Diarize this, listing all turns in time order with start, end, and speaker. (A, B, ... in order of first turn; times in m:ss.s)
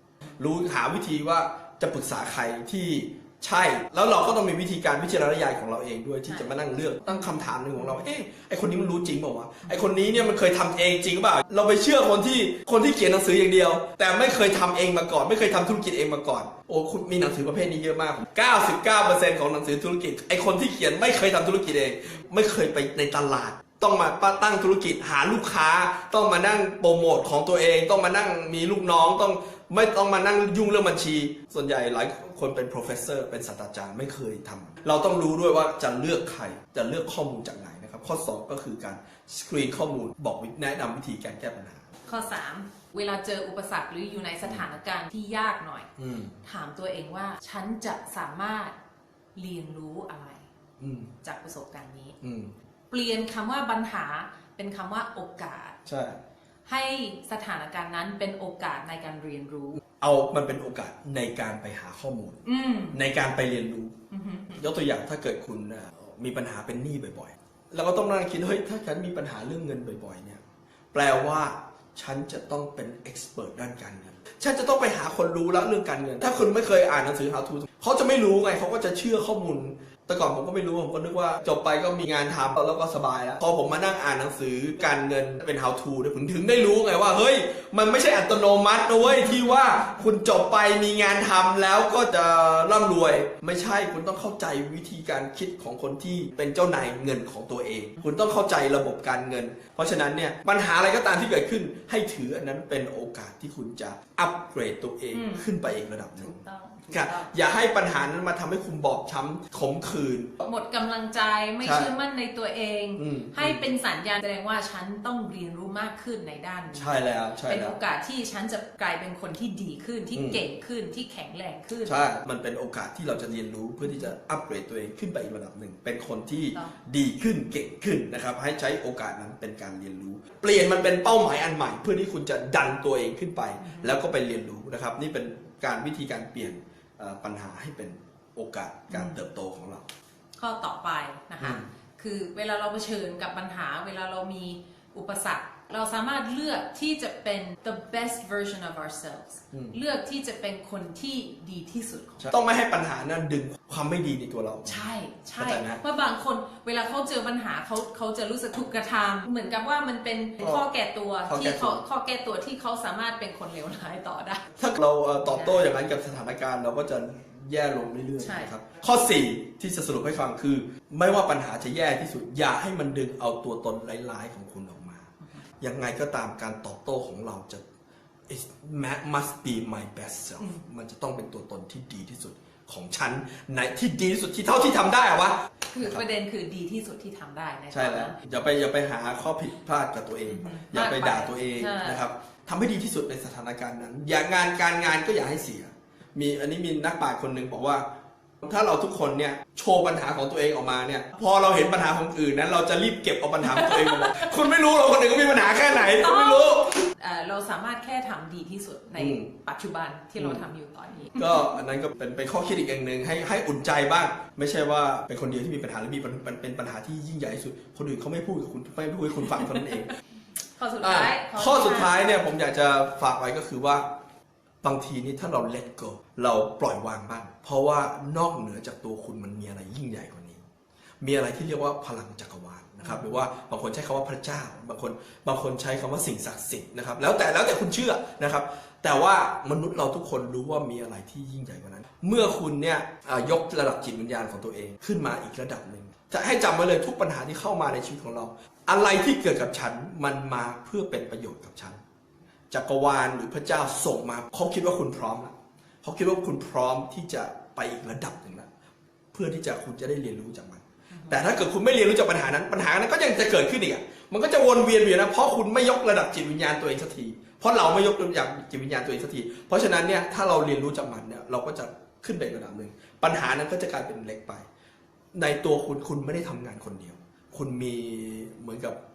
0:00.4-0:41.9 A
0:06.3-0:06.5 B
0:09.7-0:10.0 B
0:42.0-0:45.9 B
0:46.0-0:46.4 A
0:46.4-0:48.8 B
0:49.3-0:50.4 B
0:50.8-0:51.1 A
0:51.2-0:52.2 B
0:52.2-0:52.5 A
0:52.9-0:55.8 B
0:55.8-0:56.2 A
0:56.6-0:59.8 B
1:00.0-1:03.9 A
1:02.4-1:03.0 B
1:04.1-1:04.6 B
1:04.5-1:10.4 A
1:10.9-1:46.4 A
1:29.0-1:30.0 B
1:45.1-1:45.5 B
1:46.2-1:47.3 B
1:46.9-1:50.4 A
1:50.4-2:01.9 B
1:51.6-1:51.9 A
1:53.0-1:53.6 A
1:56.7-1:57.7 A
2:00.1-2:00.4 A
2:01.8-2:19.9 A
2:03.8-2:04.1 B
2:13.6-2:14.0 B
2:18.9-2:19.2 B
2:20.4-2:32.3 B
2:21.4-2:21.7 A
2:29.5-2:29.8 A
2:32.2-2:34.8 A
2:34.6-2:44.4 B
2:35.4-2:35.8 A
2:41.3-2:41.8 A
2:44.6-2:57.6 A
2:45.3-2:45.6 B
2:48.2-2:48.5 B
2:58.3-3:06.0 A
3:05.7-3:08.2 B
3:07.7-3:17.8 A
3:10.3-3:12.0 B
3:18.4-3:26.9 A
3:23.5-3:24.3 B
3:25.7-3:31.5 B
3:29.0-3:29.3 A
3:30.2-3:30.4 A
3:31.2-3:39.9 A
3:40.6-3:42.0 B
3:40.8-3:43.8 A
3:44.6-3:50.4 A
3:51.0-4:11.8 A
3:52.8-3:53.2 B
4:12.5-4:18.5 A
4:19.1-4:34.4 A
4:20.9-4:21.3 B
4:35.1-4:38.8 A